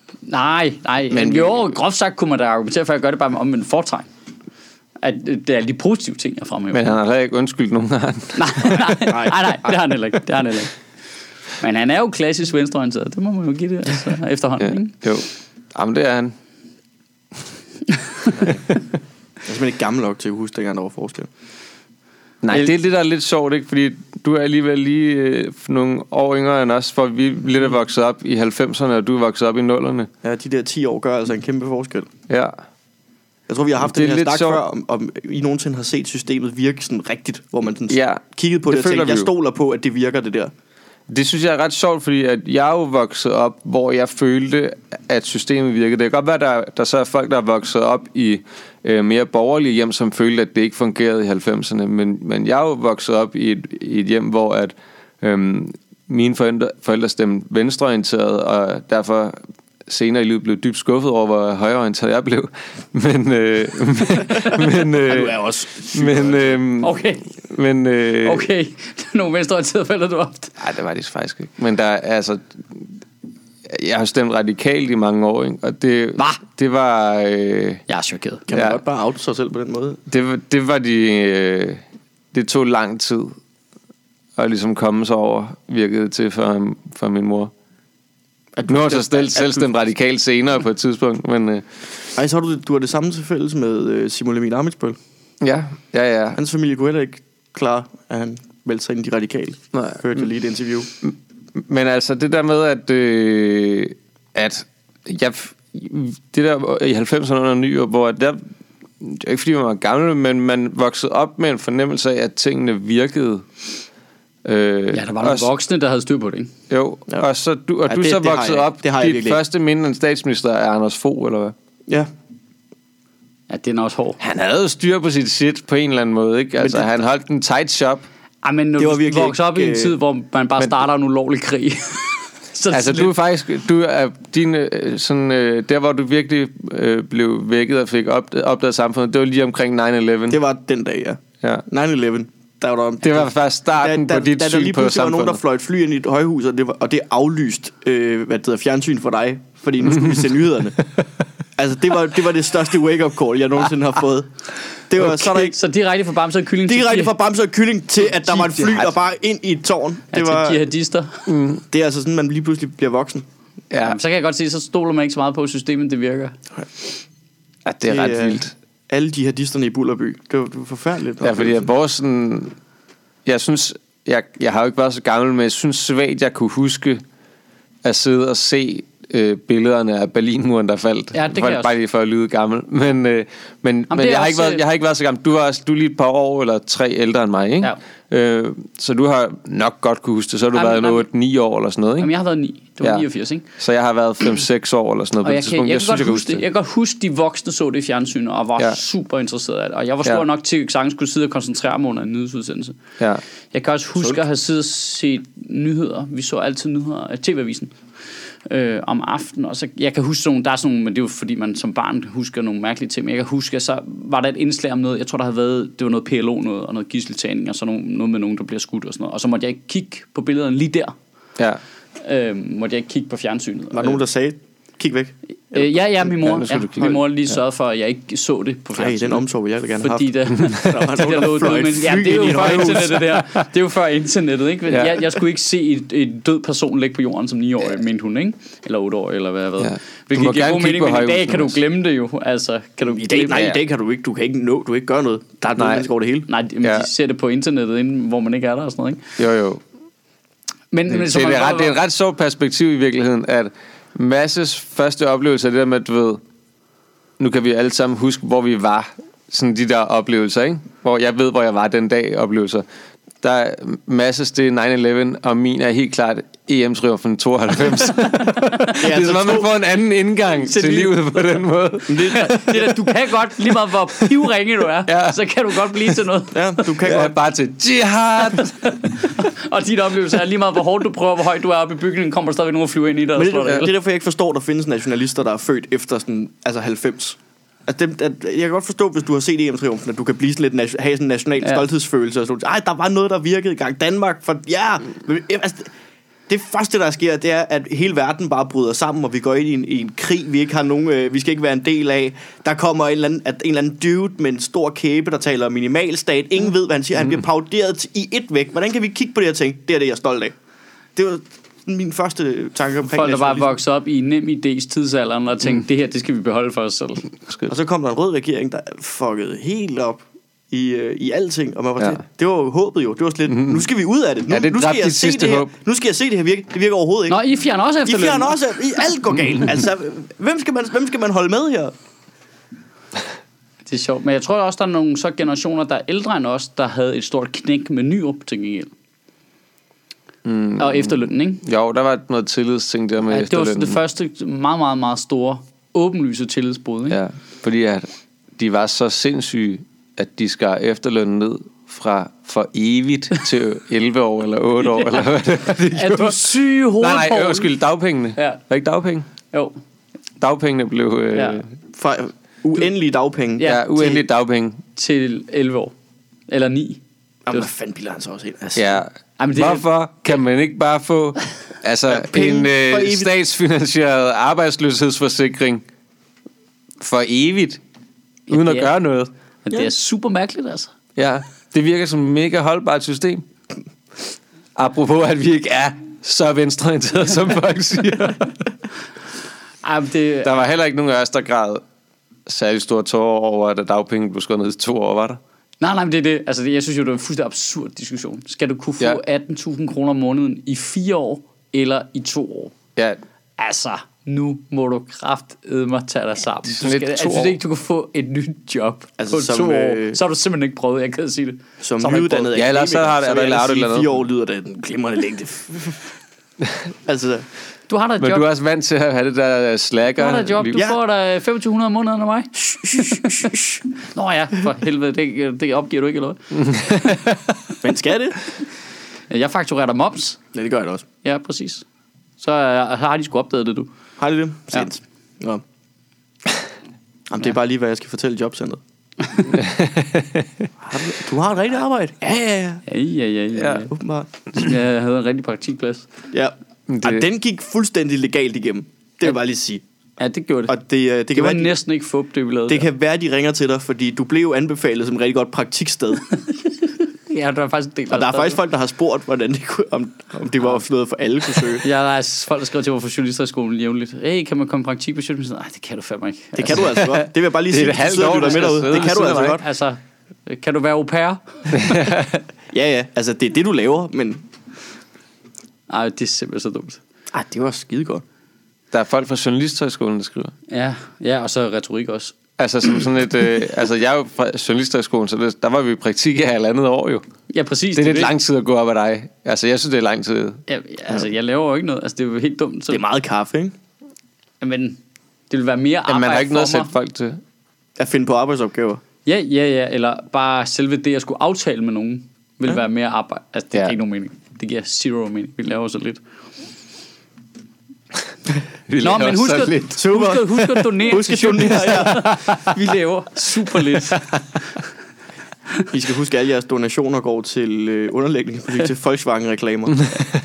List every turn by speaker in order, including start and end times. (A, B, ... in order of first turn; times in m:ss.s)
0:00.2-0:04.1 A
0:01.1-0:01.7 B
0:05.0-0:07.0 A
0:06.7-0:09.0 B
0:08.4-0:10.7 A
0:09.1-0:09.6 C
0:11.6-0:15.0 A
0:14.6-0:16.3 B
0:19.4-0:21.3 C
0:22.4-0:30.1 B
0:30.2-0:32.1 C
0:33.5-0:40.5 C
0:33.8-0:34.6 B
0:37.9-0:39.3 B
0:41.1-1:05.4 B
1:04.6-1:06.6 C
1:05.9-1:08.5 B
1:06.8-1:07.3 A
1:08.2-1:10.6 A
1:10.6-1:12.9 B
1:13.7-1:17.8 B
1:17.9-1:18.4 A
1:18.5-1:20.0 C
1:18.5-1:18.8 B
1:20.1-1:23.4 B
1:24.4-1:27.5 B
1:28.6-1:29.7 C
1:28.6-1:31.7 B
1:32.2-1:35.0 C
1:35.4-1:36.4 B
1:36.4-1:40.9 C
1:39.7-1:40.0 B
1:41.0-1:48.4 B
1:49.0-1:53.4 B
1:54.4-1:55.5 B
1:54.9-1:56.5 A
1:56.7-2:01.5 B
1:57.9-1:59.4 C
2:03.5-2:04.2 A
2:04.2-2:08.0 B
2:06.6-2:06.9 C
2:08.4-2:13.1 A
2:08.8-2:10.0 C
2:12.7-2:20.4 B
2:20.3-2:30.8 C
2:23.0-2:25.4 B
2:31.6-2:34.3 C
2:34.9-2:35.5 C
2:35.0-2:37.1 A
2:36.7-2:40.6 C
2:38.2-2:38.9 B
2:40.1-2:41.3 A
2:41.3-2:41.6 B
2:41.7-2:43.2 C
2:43.7-2:44.0 B
2:43.8-2:46.4 A
2:47.6-2:48.5 B
2:47.8-2:51.7 C
2:51.2-2:52.6 B
2:53.2-2:57.0 B
2:57.8-3:12.1 B
3:01.1-3:01.7 A
3:03.9-3:04.6 A
3:10.5-3:11.1 A
3:12.0-3:13.4 A
3:13.6-3:16.4 B
3:15.2-3:22.8 A
3:23.5-3:27.8 A
3:28.4-3:40.9 A
3:42.0-3:44.0 A
3:43.7-3:45.7 C
3:45.5-3:49.2 A
3:46.2-3:47.0 B
3:48.8-3:53.0 C
3:49.8-4:03.5 A
3:54.7-3:55.2 B
3:59.6-4:01.6 B
4:02.8-4:06.3 C
4:03.3-4:03.6 B
4:05.6-4:05.9 B
4:06.3-4:09.1 A
4:06.6-4:06.9 B
4:09.2-4:09.6 B
4:10.7-4:11.7 A
4:10.9-4:16.2 B
4:17.2-4:22.6 B
4:23.2-4:32.6 B
4:28.4-4:28.8 A
4:28.7-4:29.5 C
4:30.4-4:36.7 A
4:31.9-4:32.7 C
4:34.8-4:36.0 B
4:36.3-4:37.1 C
4:36.8-4:38.7 B
4:38.3-4:43.7 A
4:43.2-4:55.7 C
4:56.3-5:10.3 C
5:11.0-5:13.5 C
5:12.9-5:17.1 A
5:17.5-5:27.2 C
5:23.3-5:23.7 B
5:24.3-5:25.5 B
5:27.1-5:28.4 A
5:27.8-5:31.7 C
5:33.7-5:38.7 A
5:40.2-5:43.8 B
5:40.6-5:41.4 A
5:43.0-5:47.0 A
5:46.9-5:47.9 B
5:48.4-5:59.1 B
5:54.6-5:55.0 A
5:55.7-5:57.5 A
5:58.2-5:58.4 A
5:59.3-5:59.6 A
6:00.2-6:01.5 B
6:01.1-6:01.4 A
6:01.7-6:04.0 C
6:03.4-6:03.7 A
6:03.4-6:04.6 B
6:04.7-6:05.7 A
6:06.3-6:06.8 A
6:07.2-6:08.8 C
6:08.6-6:15.6 B
6:09.2-6:09.6 A
6:11.9-6:13.1 C
6:16.8-6:17.6 B
6:18.3-6:18.7 A
6:18.3-6:19.1 B
6:19.4-6:20.7 A
6:21.0-6:23.2 B
6:24.6-6:28.4 B
6:29.6-6:30.3 A
6:30.2-6:31.6 B
6:32.3-6:35.2 B
6:35.6-6:42.5 A
6:43.4-6:52.3 A
6:46.5-6:47.4 B
6:49.0-6:50.0 C
6:51.6-6:55.8 C
6:52.3-6:54.0 B
6:56.8-6:57.2 C
6:57.7-6:58.2 A
6:58.0-7:00.6 B
7:00.0-7:07.0 A
7:02.6-7:03.5 C
7:06.3-7:07.4 B
7:07.6-7:08.2 C
7:09.1-7:10.2 A
7:10.3-7:10.8 C
7:11.0-7:11.6 A
7:12.2-7:13.7 A
7:14.0-7:15.4 C
7:17.1-7:18.6 C
7:19.3-7:20.5 B
7:20.6-7:22.6 C
7:22.7-7:23.7 A
7:23.4-7:23.6 B
7:23.7-7:24.1 C
7:24.3-7:25.9 A
7:26.1-7:29.6 C
7:26.7-7:27.0 B
7:30.0-7:30.5 A
7:30.5-7:31.6 C
7:31.1-7:32.7 A
7:32.5-7:36.1 C
7:37.0-7:38.4 A
7:37.9-7:41.6 C
7:41.6-7:46.7 A
7:46.4-7:49.4 C
7:46.6-7:49.4 B
7:48.1-7:51.8 A
7:51.5-7:52.2 B
7:52.5-7:54.2 C
7:55.7-7:56.8 A
7:57.1-7:58.0 C
7:58.7-8:00.3 B
8:00.5-8:02.1 A
8:02.4-8:07.0 B
8:07.3-8:08.1 A
8:07.7-8:10.4 B
8:10.5-8:12.8 A
8:12.7-8:13.5 C
8:14.4-8:14.8 A
8:15.3-8:16.7 A
8:15.9-8:17.2 B
8:17.8-8:18.8 C
8:19.0-8:26.0 A
8:28.7-8:29.8 B
8:28.8-8:34.2 A
8:29.8-8:32.1 C
8:32.0-8:32.4 B
8:35.7-8:39.8 C